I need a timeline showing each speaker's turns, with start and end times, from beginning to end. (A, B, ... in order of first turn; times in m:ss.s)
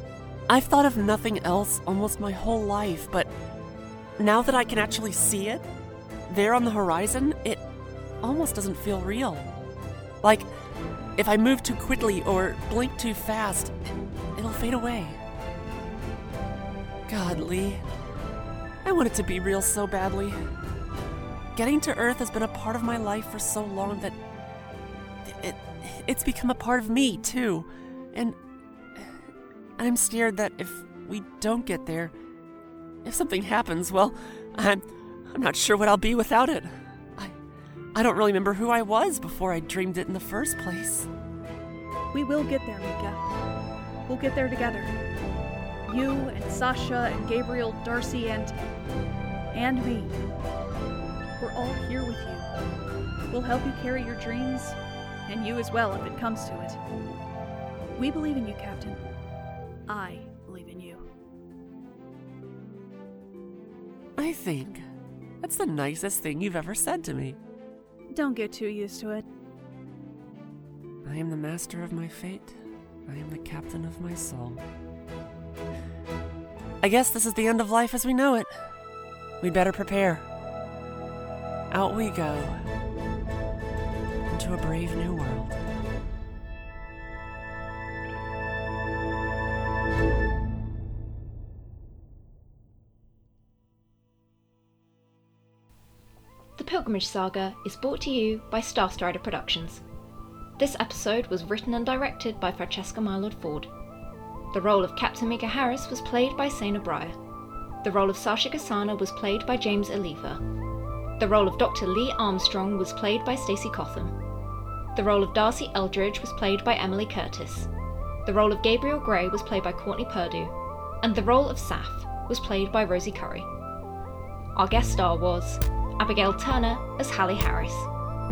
0:00.5-0:03.3 A
0:04.2-0:05.6 A
0:06.3-0:07.6 A
0:08.2-0:09.4 A
0:10.2-0:10.5 A
0:11.2-0:13.7 A
0:14.3-0:15.2 A
0:17.1-0:17.8 A
0:18.8-0:20.4 A
0:21.5-0:24.2 A
0:25.2-0:28.4 A
0:29.8-0:32.1 A
0:33.0-0:37.4 A
0:37.9-0:41.1 A
0:42.1-0:43.2 B
0:44.1-0:45.0 B
0:45.8-0:48.5 B
0:49.5-0:50.2 B
0:51.4-0:52.5 B
0:53.3-0:56.8 B
0:58.0-0:59.0 B
0:59.9-1:01.1 B
1:04.2-1:04.8 A
1:05.4-1:07.4 A
1:08.1-1:09.2 B
1:11.0-1:14.6 A
1:16.8-1:18.7 A
1:19.4-1:20.3 A
1:21.7-1:22.7 A
1:24.3-1:25.6 A
1:36.6-1:39.8 C
1:40.6-1:43.7 C
1:44.5-1:47.2 C
1:47.8-1:50.4 C
1:51.2-1:54.2 C
1:54.9-1:57.7 C
1:58.2-2:03.5 C
2:04.6-2:07.9 C